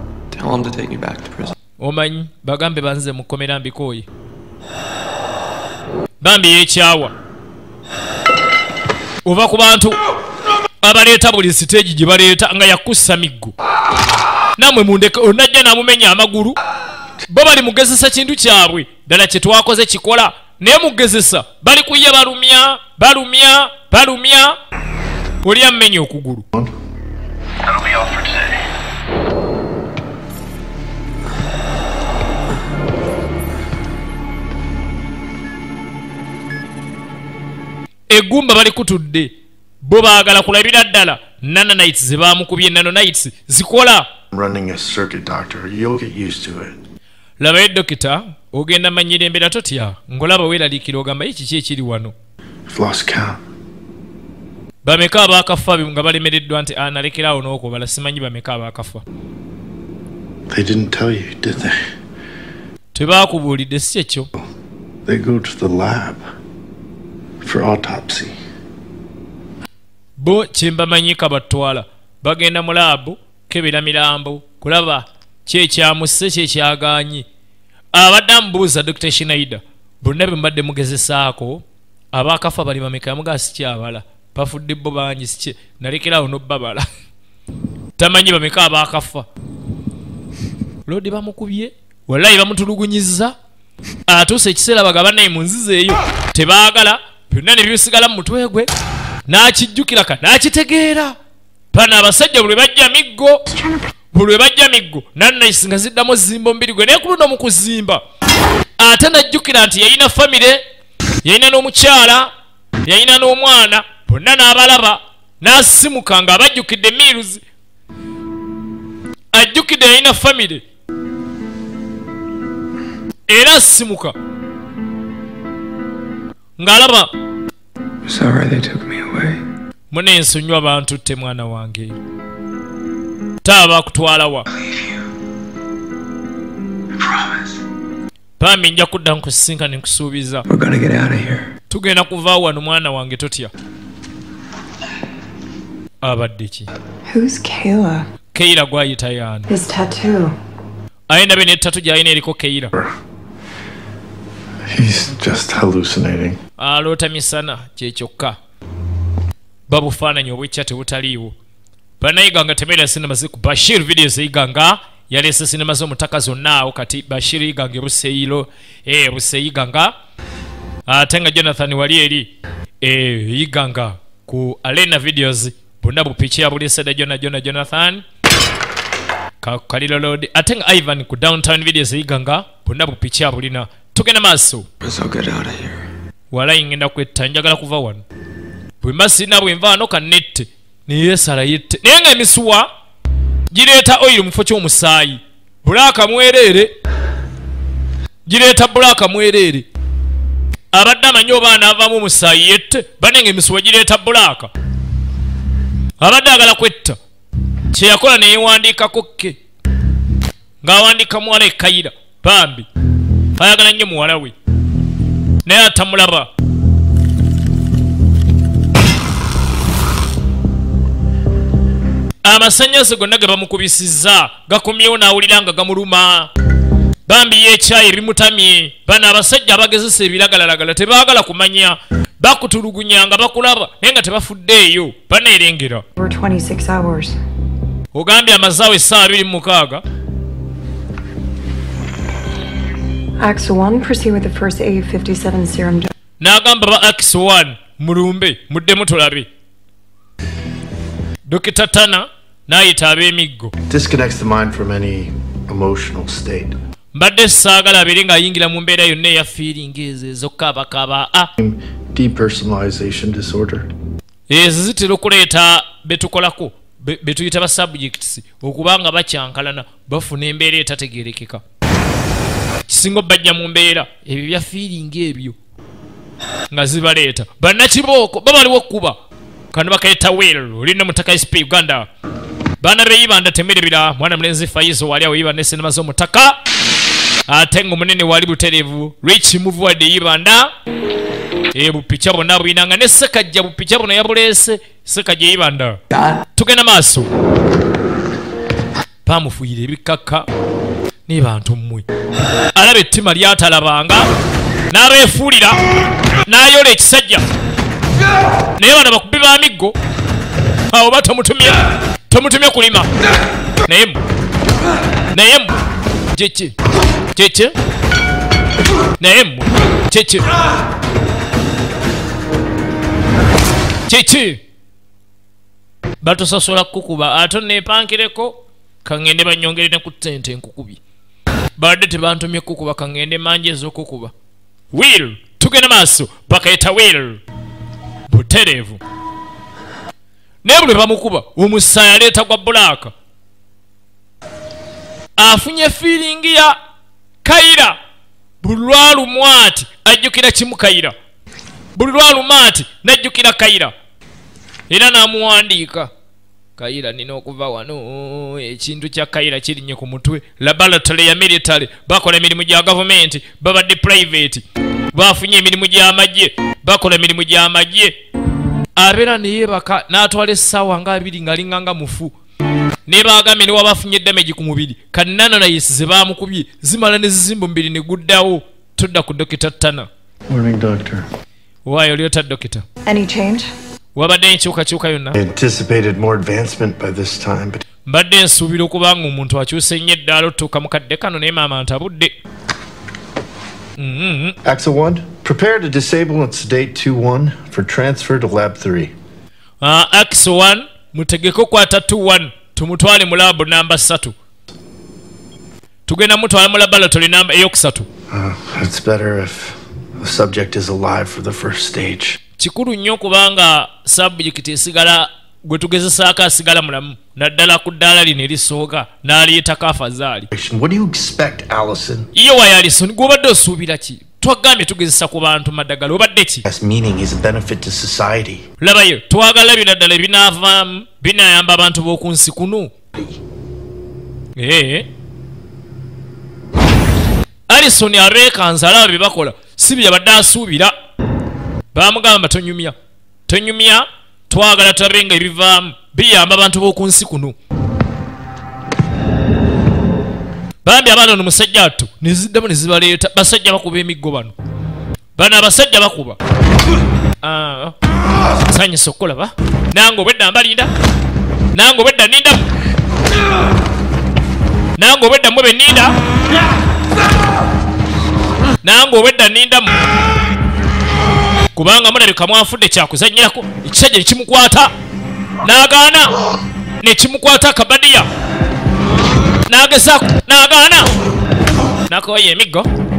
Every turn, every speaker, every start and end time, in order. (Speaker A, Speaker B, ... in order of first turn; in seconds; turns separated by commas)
Speaker A: 0.3-1.5, Speaker B: 1.8-4.0, Speaker B: 6.2-7.1, Speaker B: 9.2-10.0, Speaker B: 10.8-13.5, Speaker B: 14.6-16.6, Speaker B: 17.3-24.6, Speaker B: 25.4-26.4, Speaker C: 27.8-28.2, Speaker B: 38.1-39.3, Speaker B: 39.8-44.1, Speaker C: 44.3-46.7, Speaker B: 47.4-52.1, Speaker C: 52.7-53.4, Speaker B: 54.8-59.0, Speaker C: 60.5-61.8, Speaker B: 62.9-64.3, Speaker C: 65.0-66.2, Speaker C: 67.4-68.3, Speaker B: 70.2-77.2, Speaker B: 77.9-86.8, Speaker B: 88.0-89.3, Speaker B: 90.8-93.3, Speaker B: 94.1-98.7, Speaker B: 99.3-101.2, Speaker B: 101.7-103.4, Speaker B: 104.1-108.0, Speaker B: 108.8-110.6, Speaker B: 111.2-112.3, Speaker B: 112.8-117.4, Speaker B: 119.3-120.6, Speaker B: 123.3-124.1, Speaker B: 126.6-127.1, Speaker A: 128.0-129.4, Speaker B: 129.9-131.9, Speaker B: 133.4-134.5, Speaker A: 134.5-135.0, Speaker A: 137.0-137.3, Speaker B: 138.4-140.4, Speaker A: 140.5-141.5, Speaker B: 141.7-143.5, Speaker B: 146.0-146.7, Speaker D: 147.1-148.1, Speaker B: 148.3-149.5, Speaker D: 149.5-150.3, Speaker B: 151.1-152.7, Speaker C: 154.7-156.4, Speaker B: 156.6-158.4, Speaker B: 159.7-161.3, Speaker B: 162.0-169.9, Speaker B: 170.9-172.3, Speaker B: 172.8-178.0, Speaker B: 179.4-184.7, Speaker A: 184.8-185.8, Speaker B: 186.3-188.0, Speaker B: 188.8-192.7, Speaker B: 193.5-196.7, Speaker B: 198.2-199.7, Speaker B: 200.7-204.5, Speaker B: 206.0-207.0, Speaker B: 207.7-209.3, Speaker B: 210.6-212.7, Speaker B: 213.4-214.3, Speaker B: 215.4-216.3, Speaker B: 222.2-226.3, Speaker B: 227.1-235.8, Speaker D: 236.0-237.2, Speaker B: 237.9-239.8, Speaker D: 243.2-245.9, Speaker B: 246.2-249.3, Speaker B: 251.2-253.5, Speaker C: 253.7-256.6, Speaker B: 256.9-261.3, Speaker C: 261.4-263.7, Speaker B: 264.3-271.4, Speaker B: 272.7-275.4, Speaker B: 276.5-279.0, Speaker B: 279.5-281.9, Speaker B: 282.6-286.4, Speaker B: 287.3-290.5, Speaker B: 291.5-295.8, Speaker A: 295.9-296.2, Speaker B: 296.4-297.1, Speaker B: 299.0-300.2, Speaker B: 301.1-301.9, Speaker B: 302.5-304.1, Speaker B: 304.7-305.6, Speaker B: 306.2-307.2, Speaker B: 308.6-309.7, Speaker B: 310.7-312.9, Speaker B: 313.6-314.0, Speaker B: 315.1-315.5, Speaker B: 316.1-316.5, Speaker B: 317.1-317.5, Speaker B: 319.0-320.3, Speaker B: 323.9-324.4, Speaker B: 326.0-330.8, Speaker B: 331.6-334.1, Speaker B: 334.7-337.2, Speaker B: 338.1-338.8, Speaker B: 340.4-342.9, Speaker B: 345.2-346.6, Speaker B: 347.2-347.8, Speaker B: 348.4-350.9, Speaker B: 351.8-353.7, Speaker B: 354.7-355.9, Speaker B: 356.6-367.9, Speaker B: 368.8-372.1, Speaker B: 372.9-379.9, Speaker C: 380.3-381.1, Speaker B: 381.6-382.6, Speaker D: 382.9-383.5, Speaker B: 383.9-385.1, Speaker C: 385.1-387.6, Speaker B: 387.9-392.1, Speaker B: 393.8-394.4, Speaker C: 394.4-398.9, Speaker B: 399.6-404.1, Speaker B: 405.9-407.9, Speaker C: 408.1-412.2, Speaker B: 412.4-420.3, Speaker C: 420.3-422.1, Speaker B: 422.1-426.4, Speaker C: 426.4-428.4, Speaker B: 428.6-432.7, Speaker B: 434.4-434.9, Speaker B: 437.5-440.7, Speaker B: 441.7-442.7, Speaker B: 443.3-447.3, Speaker B: 450.6-454.3, Speaker B: 455.2-456.2, Speaker B: 457.2-457.7, Speaker B: 458.5-460.7, Speaker B: 461.5-462.4, Speaker B: 464.8-465.9, Speaker B: 468.6-469.8, Speaker B: 471.5-474.7, Speaker B: 475.4-476.1, Speaker B: 476.8-478.1, Speaker B: 479.5-480.9, Speaker B: 481.9-482.7